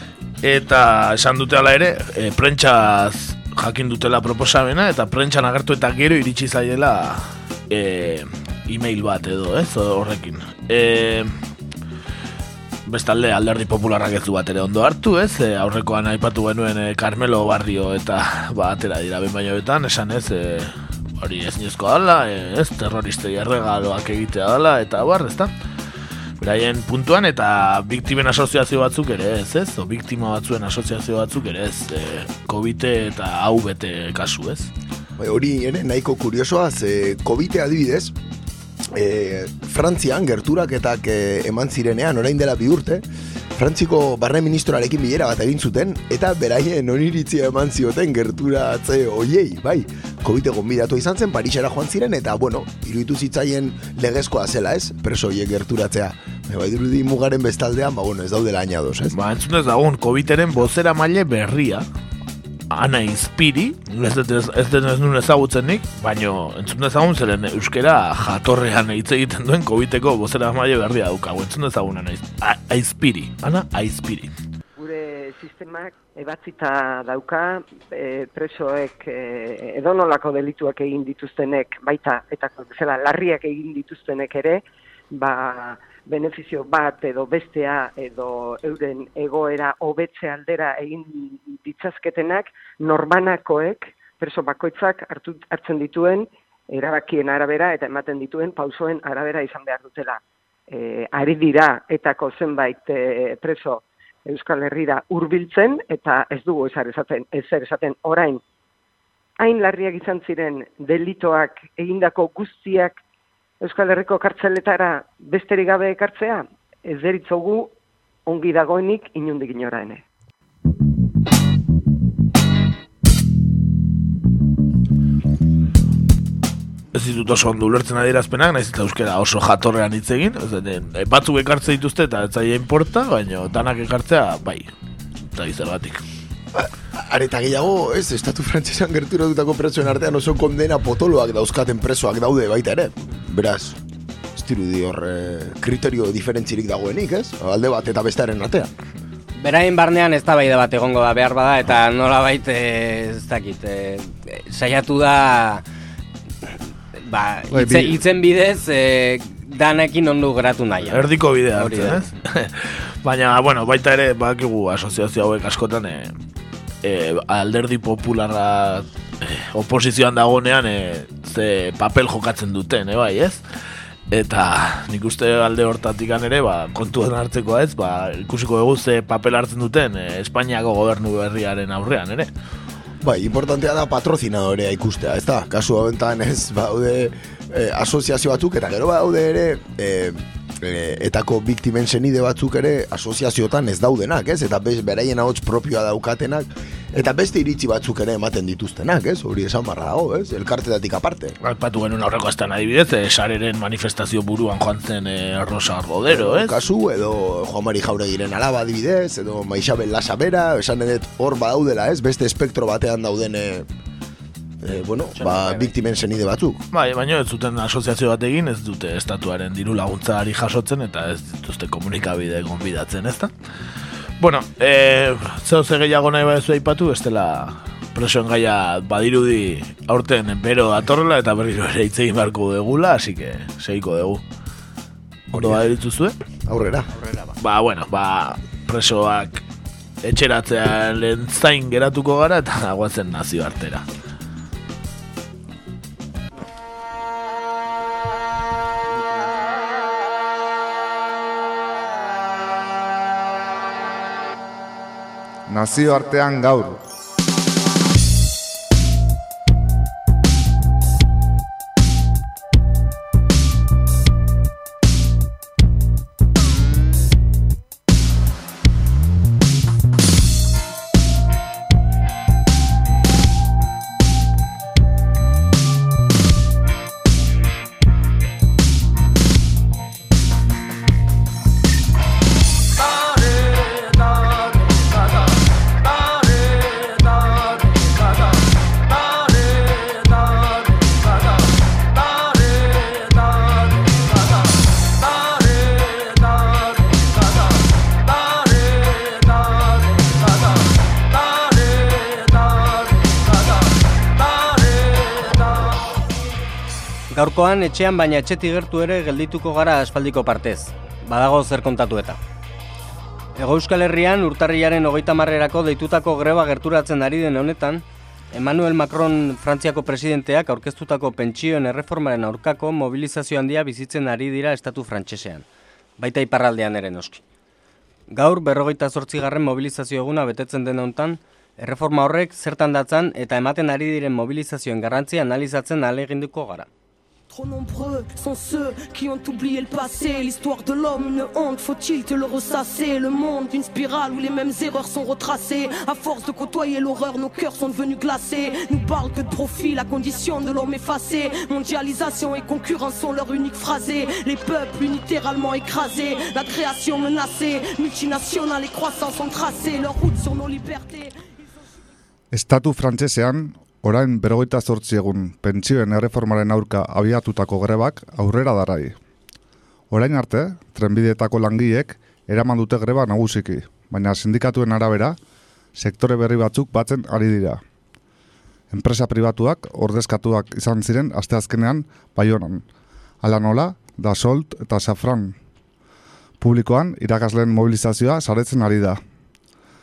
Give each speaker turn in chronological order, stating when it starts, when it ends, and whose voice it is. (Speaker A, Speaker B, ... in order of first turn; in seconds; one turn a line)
Speaker A: 0.4-11.3
Speaker A: 12.9-25.5
Speaker A: 26.4-34.7
Speaker B: 35.2-38.1
Speaker B: 38.9-43.0
Speaker B: 43.6-59.1
Speaker A: 59.1-61.8
Speaker A: 62.7-74.3
Speaker C: 74.8-108.4
Speaker C: 109.4-113.0
Speaker C: 113.6-117.7
Speaker C: 118.3-120.0
Speaker A: 126.9-134.7
Speaker A: 135.3-136.0
Speaker B: 136.5-143.8
Speaker B: 144.3-148.7
Speaker D: 149.4-155.6
Speaker D: 157.0-162.1
Speaker E: 157.5-158.0
Speaker A: 160.9-166.1
Speaker A: 166.8-173.4
Speaker A: 174.1-182.3
Speaker B: 183.0-201.4
Speaker A: 201.4-206.6
Speaker B: 206.1-213.7
Speaker B: 214.6-216.6
Speaker D: 215.2-215.7
Speaker A: 216.7-223.3
Speaker A: 224.2-234.2
Speaker A: 235.3-236.2
Speaker B: 235.3-235.7
Speaker B: 236.5-236.9
Speaker D: 236.9-237.3
Speaker A: 237.4-239.4
Speaker A: 240.0-243.9
Speaker E: 255.5-256.8
Speaker D: 307.1-312.2
Speaker D: 313.4-325.5
Speaker D: 326.0-327.2
Speaker D: 328.1-336.7
Speaker F: 337.3-361.1
Speaker E: 362.3-369.0
Speaker E: 369.9-375.2
Speaker E: 375.8-377.6
Speaker E: 378.7-382.6
Speaker E: 383.2-385.4
Speaker E: 386.4-389.0